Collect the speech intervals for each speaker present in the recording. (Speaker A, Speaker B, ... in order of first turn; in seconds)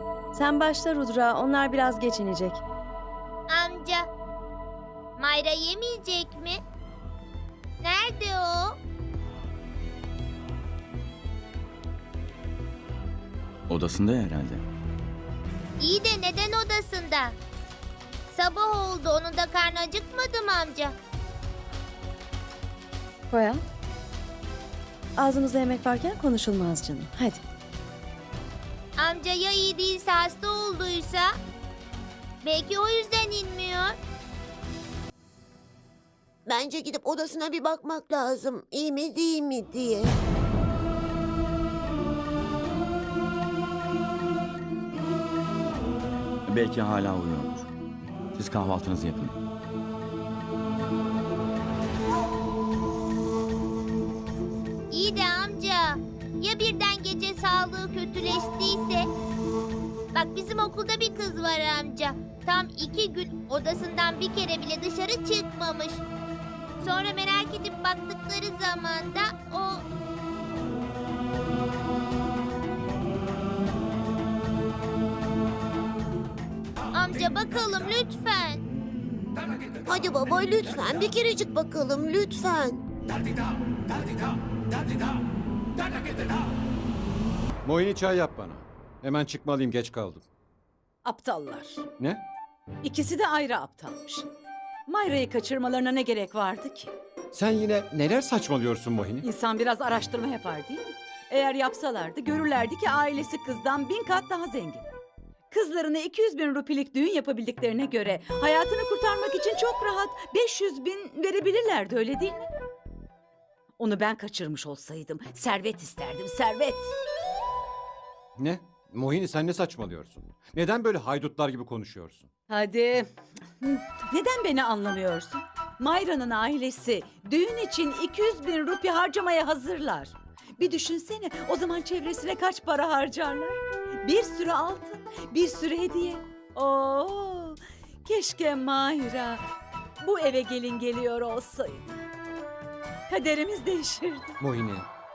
Speaker A: 0.3-2.6, 23.3-23.6, 25.2-27.4
Speaker B: 3.5-4.1, 5.2-6.6, 7.8-8.8, 15.8-17.4, 18.3-20.9, 29.0-31.3, 32.4-34.0, 54.9-59.1, 60.1-66.0, 66.8-69.8, 76.9-78.6
Speaker C: 13.7-14.7, 46.5-47.7, 48.4-49.4
Speaker D: 36.5-40.1, 79.8-82.8
Speaker E: 87.7-90.2, 97.4-99.2, 118.5-122.2, 144.4-144.9
Speaker F: 91.0-91.9, 92.8-94.3, 94.9-96.9, 99.2-104.9, 105.5-112.5, 113.8-116.9, 122.5-123.1, 123.6-139.4, 140.0-142.0, 143.1-144.4